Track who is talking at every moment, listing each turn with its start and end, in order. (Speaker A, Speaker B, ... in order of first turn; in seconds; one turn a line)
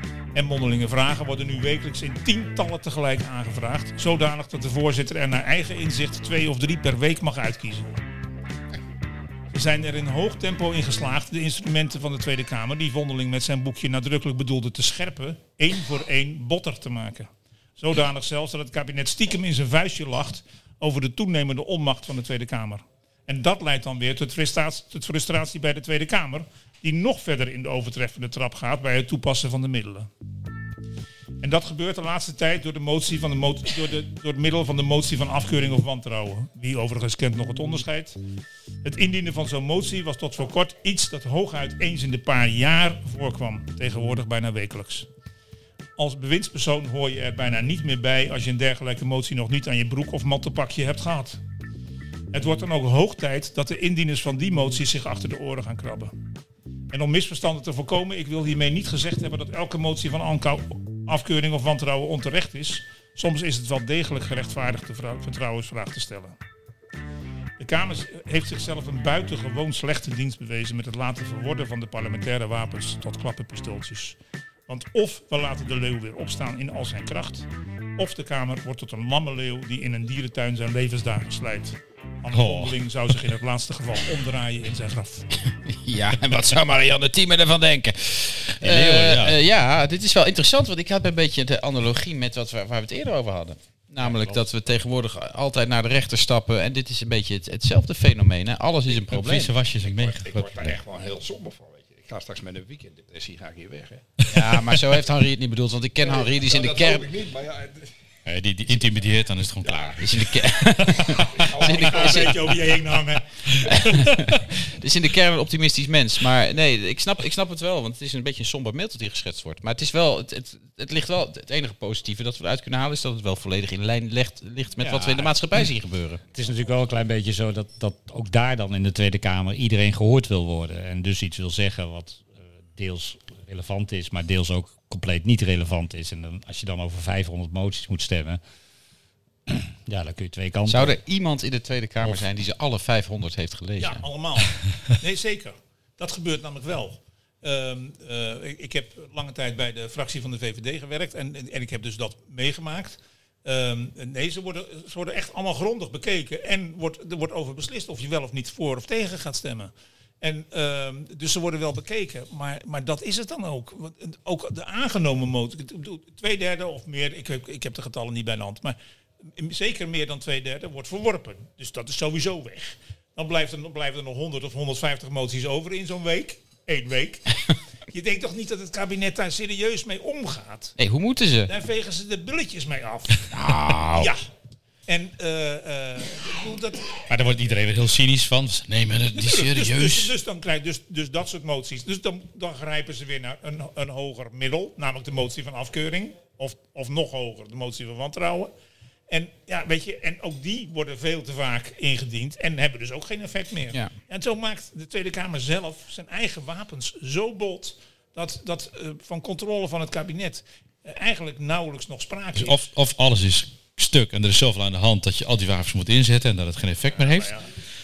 Speaker A: 0.3-7.9
Speaker A: 9.5-30.1
Speaker A: 31.4-38.2
Speaker A: 38.8-45.1
Speaker A: 46.0-51.4
Speaker A: 52.3-56.1
Speaker A: 56.9-66.4
Speaker A: 67.6-85.3
Speaker B: 82.3-82.8
Speaker C: 85.7-99.5
Speaker B: 88.6-89.4
Speaker D: 94.0-94.3
Speaker B: 99.1-100.8
Speaker E: 99.8-104.1
Speaker C: 104.3-107.1
Speaker E: 106.0-107.9
Speaker B: 108.3-110.3
Speaker E: 109.7-109.9
Speaker C: 110.0-112.6
Speaker E: 111.1-112.3
Speaker A: 111.8-113.2
Speaker C: 113.7-126.2
Speaker D: 124.8-125.3
Speaker D: 126.3-138.4
Speaker D: 139.5-141.0
Speaker C: 140.7-144.0
Speaker A: 143.8-168.8
Speaker A: 169.4-177.3
Speaker A: 177.9-180.8
Speaker C: 180.8-181.5
Speaker A: 181.5-183.3
Speaker C: 183.3-184.1
Speaker A: 183.9-184.2
Speaker A: 184.9-187.0
Speaker B: 187.1-190.1
Speaker A: 189.2-198.5
Speaker A: 199.1-212.6
Speaker B: 212.3-217.4
Speaker A: 216.9-217.4